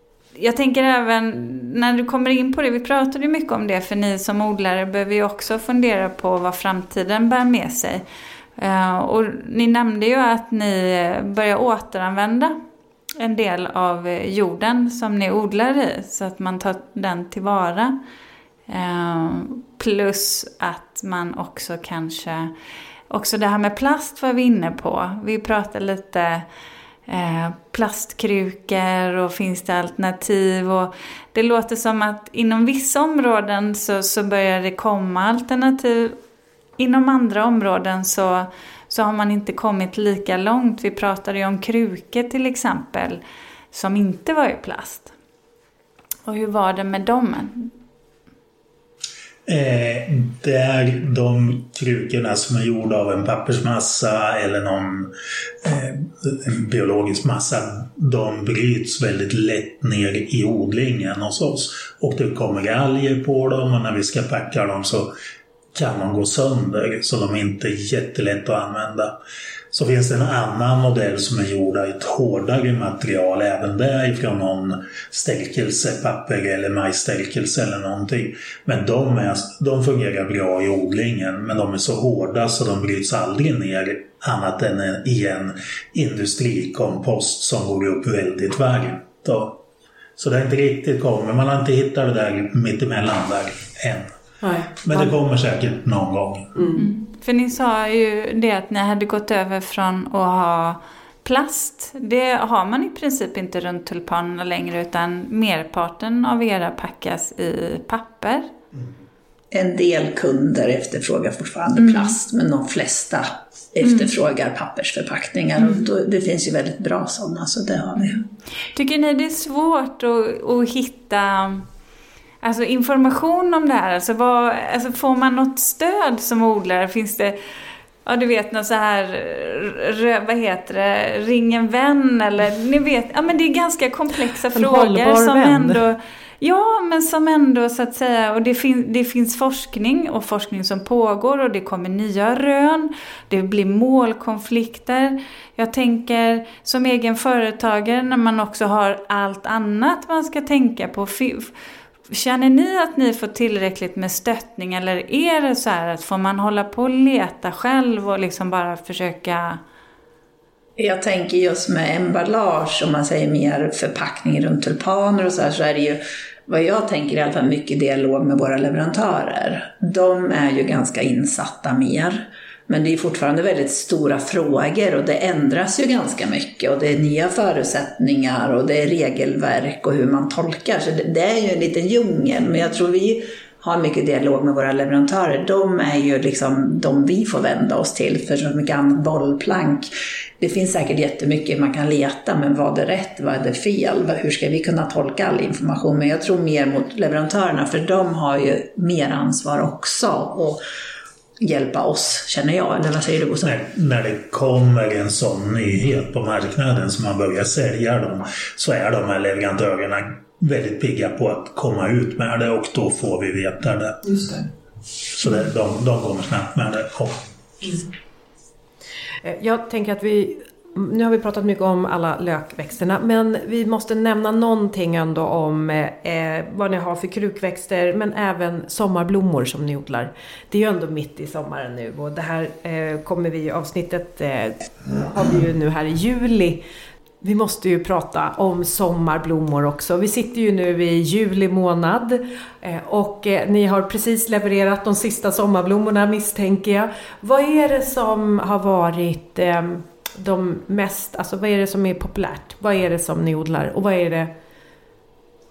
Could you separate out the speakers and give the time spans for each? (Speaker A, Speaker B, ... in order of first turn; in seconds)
Speaker A: 0.4-8.0, 8.6-12.6, 13.2-18.0, 18.7-22.5, 23.1-26.5, 27.1-36.2, 36.8-43.2, 43.7-45.1, 46.3-47.7, 96.8-108.5, 111.8-112.1, 113.8-114.1, 118.7-121.7, 122.4-127.4, 128.1-151.5, 152.1-159.6
Speaker B: 49.5-65.1, 65.7-69.2, 69.7-89.6, 90.2-94.1, 94.8-96.5, 203.4-214.1, 215.1-217.7
Speaker C: 94.4-95.1, 96.5-96.8, 134.5-135.8, 214.0-214.4, 219.2-236.6, 237.2-254.3
Speaker D: 109.5-118.2, 160.8-200.6, 201.4-203.6